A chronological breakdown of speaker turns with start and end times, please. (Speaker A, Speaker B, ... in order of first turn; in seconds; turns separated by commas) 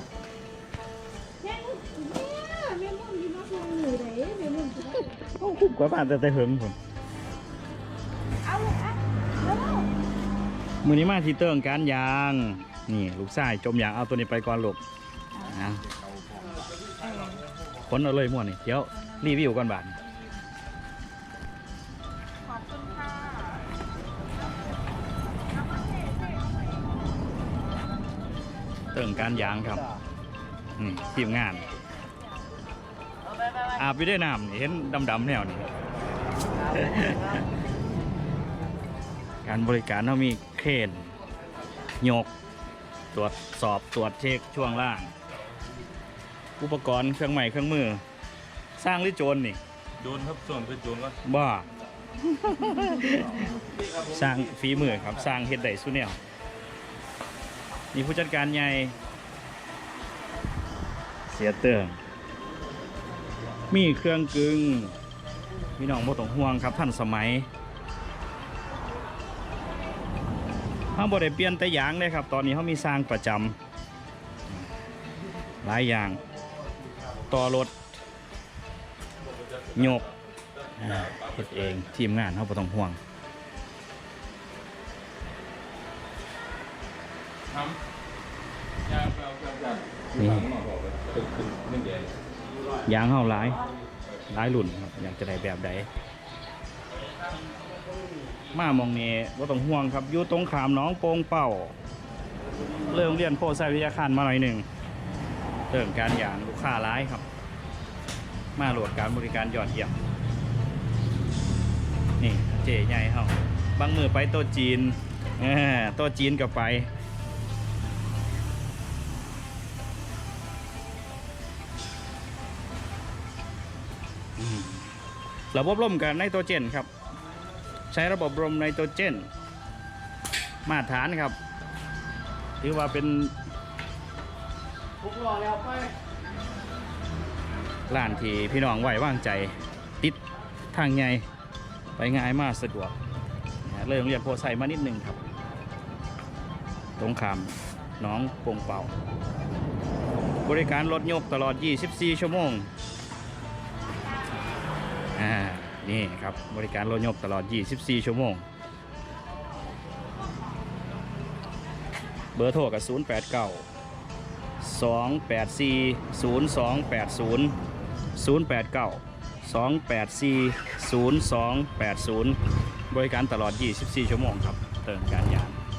Speaker A: 1.4-5.2, Speaker B: 5.3-6.8, Speaker A: 8.4-9.9, Speaker B: 10.8-14.8, Speaker B: 15.4-15.9, Speaker B: 17.8-19.9, Speaker A: 22.4-23.7, Speaker A: 25.7-26.8, Speaker B: 28.9-29.9, Speaker B: 30.8-31.7, Speaker B: 33.7-35.7, Speaker B: 36.6-37.4, Speaker B: 39.4-41.1, Speaker B: 42.0-42.3, Speaker B: 43.1-45.1, Speaker B: 46.6-48.0, Speaker B: 48.8-49.6, Speaker C: 50.0-51.2, Speaker B: 51.2-51.7, Speaker B: 52.2-56.2, Speaker B: 57.9-58.9, Speaker B: 61.3-62.0, Speaker B: 63.7-64.9, Speaker B: 65.8-67.5, Speaker B: 70.9-73.5, Speaker B: 75.6-76.2, Speaker B: 77.3-77.7, Speaker B: 79.7-80.1, Speaker B: 80.8-83.0, Speaker C: 80.8-81.5, Speaker C: 88.9-89.8, Speaker B: 90.1-90.5, Speaker C: 90.5-92.2, Speaker B: 92.9-93.6, Speaker B: 94.3-95.9, Speaker B: 98.5-101.7, Speaker B: 102.9-104.7, Speaker B: 105.7-107.2, Speaker B: 108.5-109.9, Speaker B: 112.2-116.9, Speaker B: 124.4-124.9, Speaker B: 125.5-126.9, Speaker B: 127.9-129.3, Speaker B: 130.7-131.4, Speaker B: 132.6-133.3, Speaker B: 137.9-140.2, Speaker B: 140.7-141.2, Speaker B: 142.0-142.9, Speaker B: 143.6-145.2, Speaker B: 147.0-148.9, Speaker B: 150.4-152.7, Speaker B: 155.2-158.4, Speaker B: 162.3-163.6, Speaker B: 164.6-167.5, Speaker B: 168.2-172.4, Speaker B: 172.9-175.6